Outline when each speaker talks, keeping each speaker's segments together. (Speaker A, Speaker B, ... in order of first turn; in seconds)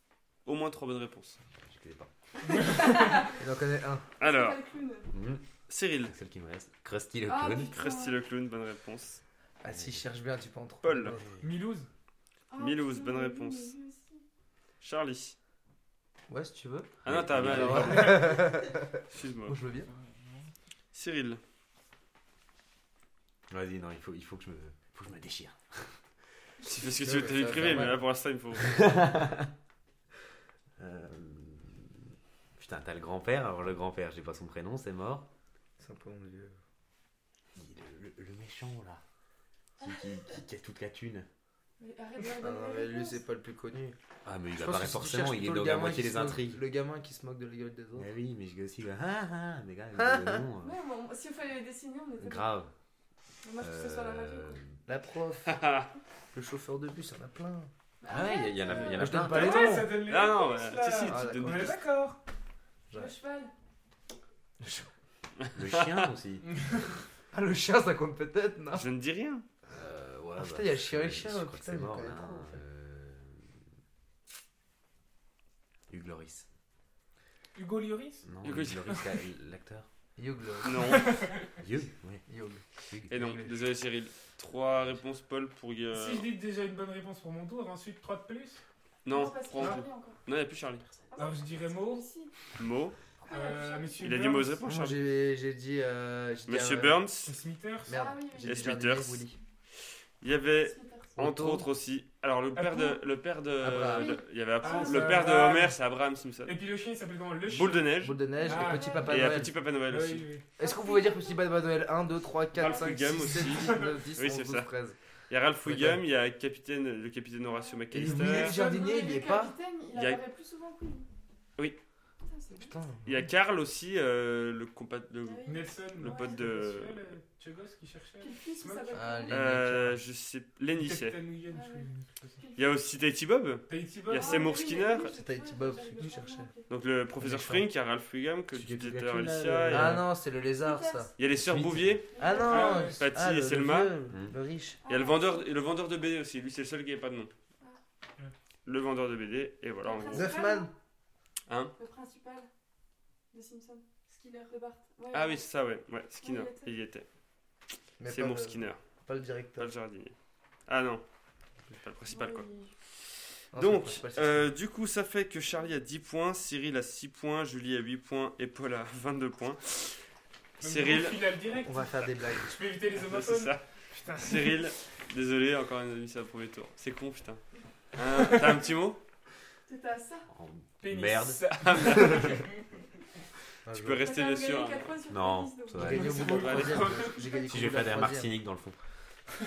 Speaker A: 0.5-1.4, 4.2-4.6, 5.7-6.1, 7.7-9.2, 10.8-11.2, 12.6-13.7, 14.8-15.4, 17.1-18.4, 19.1-19.6, 20.9-21.4, 26.6-28.9, 55.5-55.9, 60.0-61.8, 65.7-66.1, 68.7-69.5, 78.4-78.8, 80.6-81.0, 83.1-86.3, 89.0-90.9, 92.6-93.0, 94.0-95.0, 96.5-97.3, 98.4-99.2, 100.2-106.5, 107.5-108.2, 109.1-110.3, 112.5-114.7, 115.3-118.6, 119.9-120.2, 123.1-125.4, 126.0-127.0, 129.3-131.2, 132.6-135.1, 136.7-140.0, 141.2-142.1, 143.0-143.9, 144.9-147.3, 148.7-150.4, 151.5-151.8, 155.1-157.1, 158.1-158.8, 159.6-160.1, 160.7-161.0, 161.8-162.5, 163.5-170.0, 170.6-171.2, 173.0-173.6, 174.2-177.4, 177.9-179.0, 181.6-182.4, 183.7-184.9, 186.2-187.1
Speaker B: 1.6-2.1, 5.1-5.4, 6.0-7.7, 9.7-10.2, 17.1-18.2, 23.5-25.9, 28.6-29.5, 30.8-35.3, 37.5-39.0, 39.8-41.3, 44.2-46.6, 48.0-50.8, 52.2-52.7, 53.6-54.7, 58.1-59.8, 65.5-66.5, 69.7-73.5, 75.9-76.5, 78.2-79.9, 81.6-82.2, 82.9-83.4, 138.5-140.1, 141.4-142.0, 144.1-144.4, 180.3-181.4, 185.1-186.4, 187.4-188.8
Speaker C: 2.5-3.3, 11.4-11.9, 19.9-20.5, 59.4-62.2, 66.4-66.9, 77.5-78.2, 80.8-81.5, 85.9-88.6, 91.2-92.0, 93.3-94.7, 97.2-98.0, 102.5-103.0, 104.6-105.8, 106.5-109.1, 109.9-110.5, 113.4-113.9, 118.0-119.1, 125.4-129.1, 130.8-132.4, 133.7-134.5, 142.4-143.0, 170.6-174.7, 180.8-182.6, 185.8-187.2
Speaker D: 2.6-3.4, 4.2-5.1, 7.3-8.2, 12.5-14.2, 39.8-40.1, 41.8-43.2, 50.6-52.5, 53.4-54.6, 58.0-59.8, 62.9-63.5, 89.1-90.2, 91.0-92.3, 93.2-94.4, 97.9-98.7, 100.6-101.2, 103.9-105.5, 108.4-109.2, 110.6-111.5, 112.6-113.0, 117.4-117.9, 118.4-121.1, 122.2-122.8, 125.2-126.4, 128.2-129.5, 131.5-132.8, 134.1-136.7, 140.6-141.1, 142.1-143.0, 144.8-145.5, 149.8-150.7, 151.8-152.5, 153.3-155.4, 156.2-156.8, 162.1-162.8, 179.7-180.3, 184.0-186.0
Speaker E: 3.4-4.1, 9.6-11.3, 16.3-19.9, 27.0-28.0, 35.8-36.6, 42.4-44.0, 44.5-48.1, 50.0-50.5, 54.9-55.6, 56.3-57.7, 59.0-60.0, 61.0-61.8, 64.6-64.9, 67.3-68.9, 70.4-72.6, 80.2-81.1, 82.3-83.5, 94.7-97.0, 97.9-99.4, 101.2-101.7, 103.6-104.2, 108.0-109.5, 110.6-115.0, 115.6-116.0, 117.9-119.5, 122.5-123.3, 128.9-130.0, 135.1-136.5, 137.2-137.7, 139.7-141.1, 142.2-144.8, 150.1-150.7, 158.0-159.7, 163.5-164.5, 171.6-172.6, 183.7-184.0, 185.8-188.3